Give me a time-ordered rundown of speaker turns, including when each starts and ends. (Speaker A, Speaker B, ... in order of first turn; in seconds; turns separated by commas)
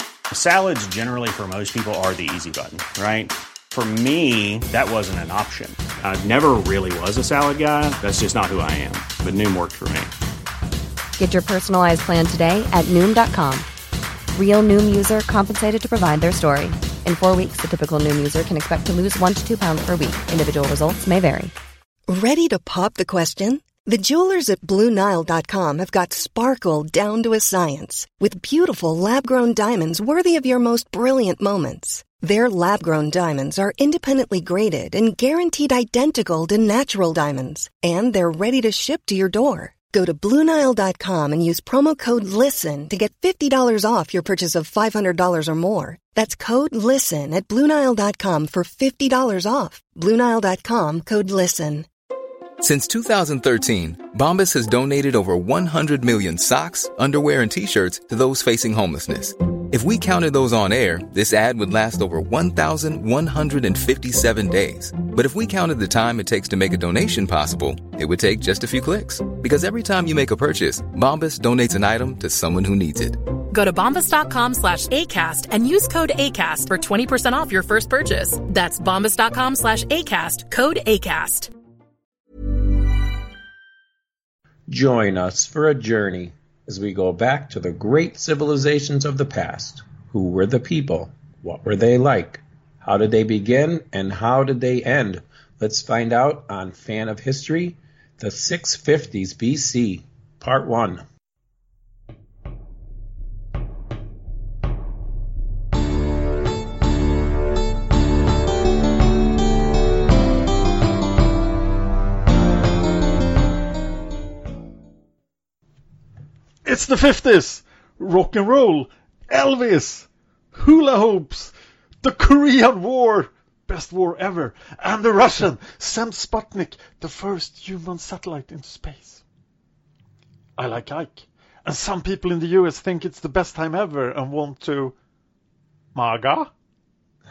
Speaker A: 0.3-10.1, Speaker B: 11.2-13.7, Speaker B: 14.3-21.5, Speaker C: 22.1-51.9, Speaker D: 52.6-73.3, Speaker E: 73.5-81.5, Speaker F: 84.7-101.0, Speaker G: 116.7-129.2, Speaker G: 130.6-134.9, Speaker G: 135.9-136.5